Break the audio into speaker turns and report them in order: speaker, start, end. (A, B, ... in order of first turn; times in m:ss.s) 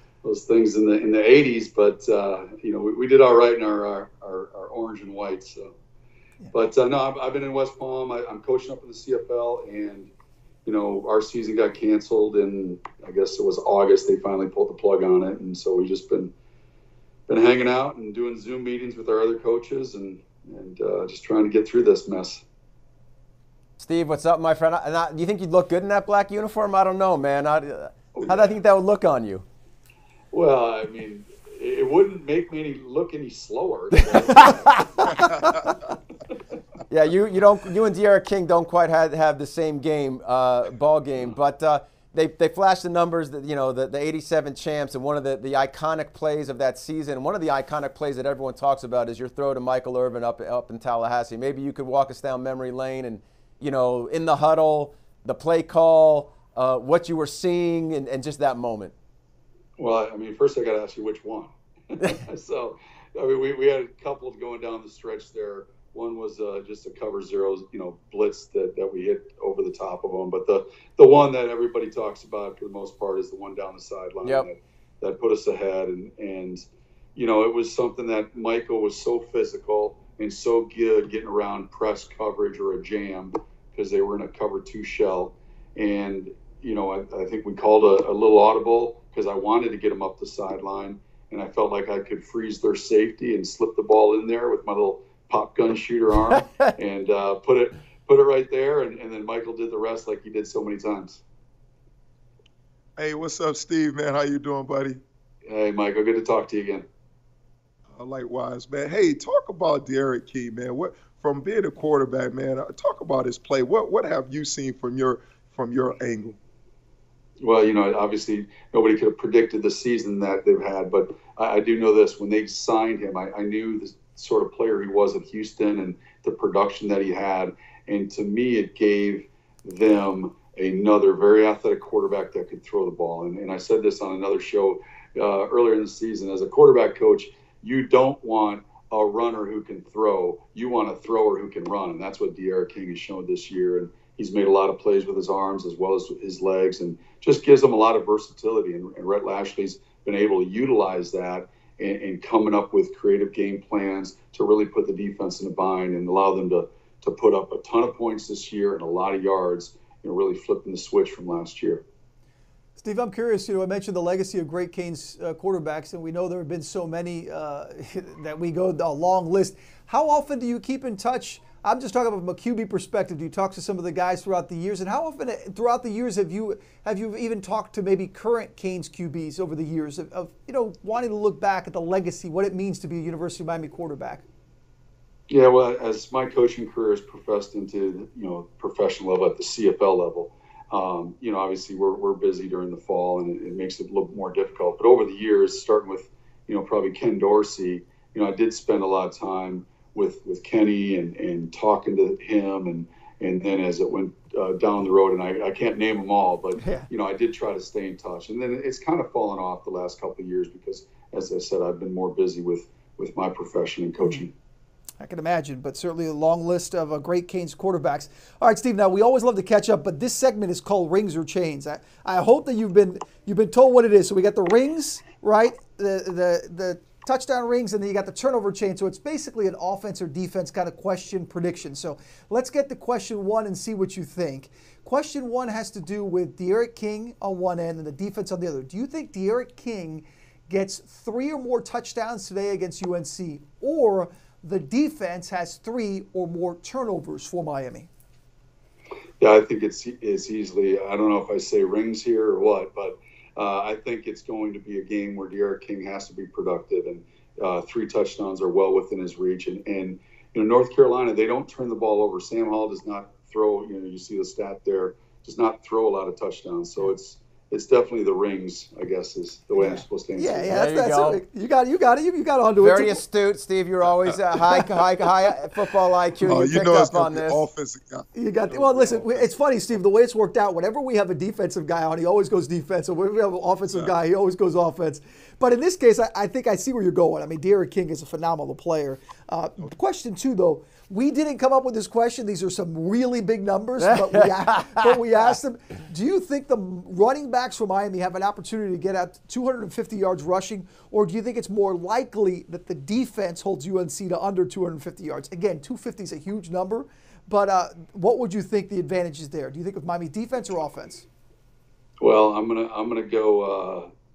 0:00.2-0:05.7 A
0:06.5-0:10.1 A
0:10.6-0:16.3 A
0:17.3-0:22.4 A
0:23.8-0:29.4 B
0:28.2-0:28.5 A
0:30.3-0:34.8 A
0:36.9-0:58.9 B
0:59.8-1:01.5 A
1:02.1-1:16.6 A
1:17.2-1:41.2 A
1:43.0-1:45.0 C
1:45.5-1:46.8 A
1:47.9-1:56.4 C
1:57.4-2:41.8 A
2:42.8-3:04.2 D
3:05.3-3:34.3 A
3:26.6-3:26.9 D
3:35.0-4:07.9 D
4:09.2-4:30.5 A
4:29.5-4:33.0 D
4:30.5-4:31.2 B
4:32.6-4:37.4 B
4:36.2-4:39.2 C
4:38.2-5:11.0 D
4:53.8-4:55.0 B
5:12.0-5:13.9 A